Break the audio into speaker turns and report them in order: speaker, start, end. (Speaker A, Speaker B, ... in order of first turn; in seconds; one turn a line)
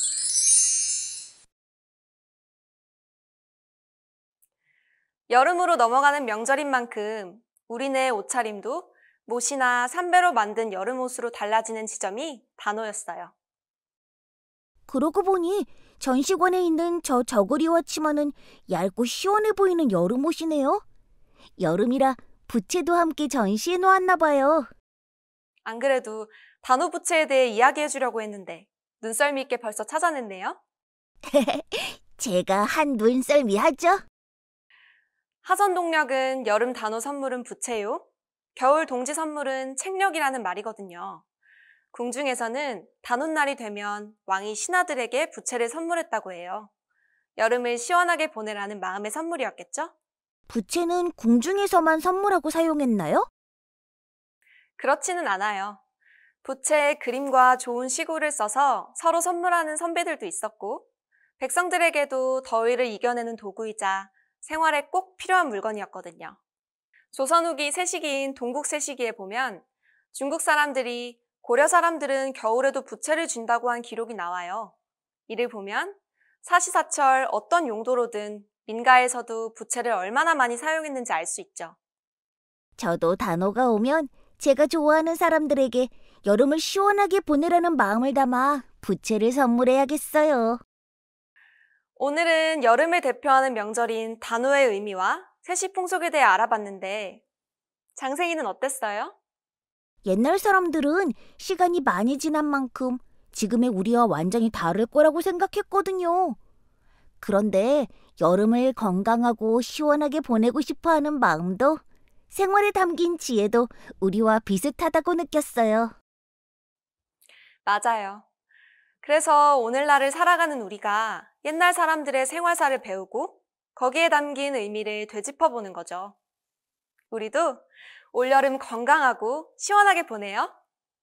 Speaker A: 5.3-13.3
Speaker B: 14.9-20.8
Speaker B: 21.6-24.7
Speaker A: 25.6-30.6
Speaker B: 31.2-34.0
Speaker A: 35.4-38.0
Speaker A: 38.5-41.2
Speaker A: 41.9-46.7
Speaker A: 47.4-49.9
Speaker B: 50.5-53.3
Speaker A: 54.8-55.8
Speaker A: 56.4-60.8
Speaker A: 61.4-66.4
Speaker A: 67.1-74.7
Speaker A: 75.3-81.7
Speaker B: 82.8-90.6
Speaker A: 92.0-97.2
Speaker A: 97.9-99.1
Speaker B: 100.0-106.4
Speaker B: 107.2-115.9
Speaker A: 117.7-118.2
Speaker A: 119.0-126.1
Speaker A: 127.1-130.5